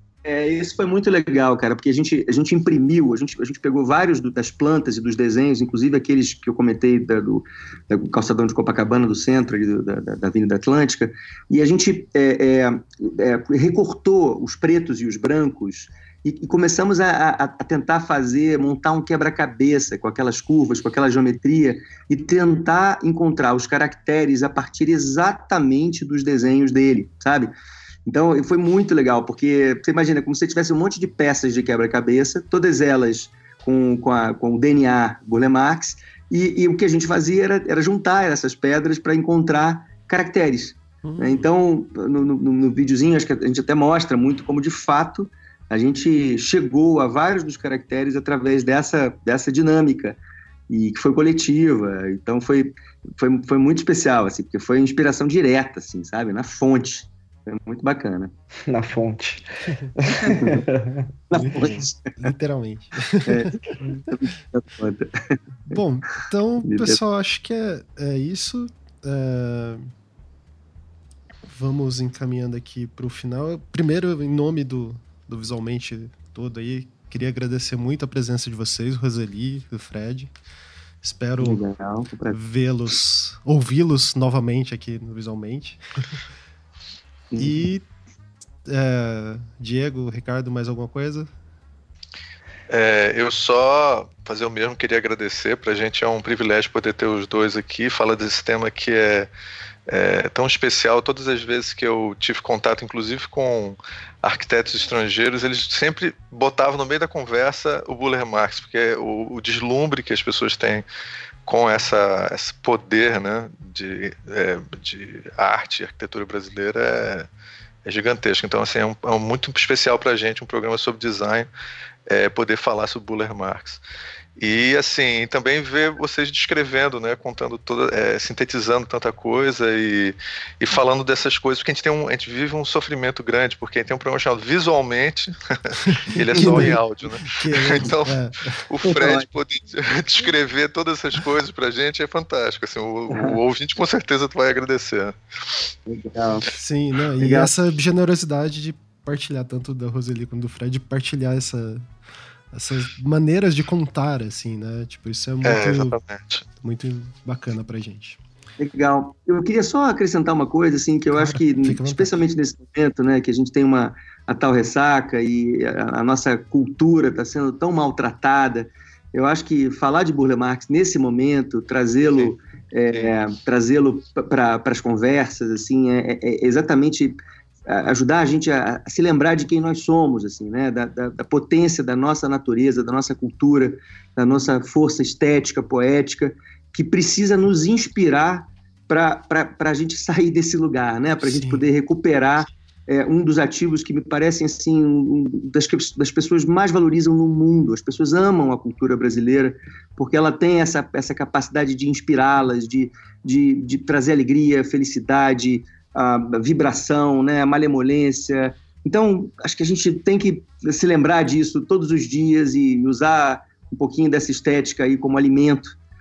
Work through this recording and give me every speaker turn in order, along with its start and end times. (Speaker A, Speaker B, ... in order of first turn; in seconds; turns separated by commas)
Speaker A: 0.2-27.5, Speaker A: 28.1-50.2, Speaker B: 41.0-41.5, Speaker A: 50.7-58.3, Speaker C: 58.7-61.1, Speaker A: 60.3-60.6, Speaker A: 61.3-62.3, Speaker B: 61.3-63.5, Speaker A: 63.2-65.1, Speaker B: 65.7-69.9, Speaker A: 66.6-67.0, Speaker B: 71.5-80.3, Speaker B: 81.0-81.6, Speaker A: 81.4-82.4, Speaker B: 82.3-85.8, Speaker A: 87.3-87.6, Speaker B: 87.4-87.8, Speaker B: 88.7-91.3, Speaker D: 92.7-99.3, Speaker D: 99.9-110.8, Speaker D: 111.5-117.3, Speaker D: 117.8-121.5, Speaker D: 122.1-123.8, Speaker D: 124.4-138.2, Speaker B: 136.1-138.6, Speaker A: 136.3-136.7, Speaker D: 138.7-145.7, Speaker A: 138.8-139.3, Speaker A: 143.1-143.4, Speaker A: 145.9-146.5, Speaker B: 146.5-151.9, Speaker A: 147.2-147.5, Speaker B: 152.5-156.0, Speaker D: 155.4-156.4, Speaker B: 156.6-158.2, Speaker A: 158.6-215.8, Speaker B: 161.1-162.1, Speaker B: 191.2-191.7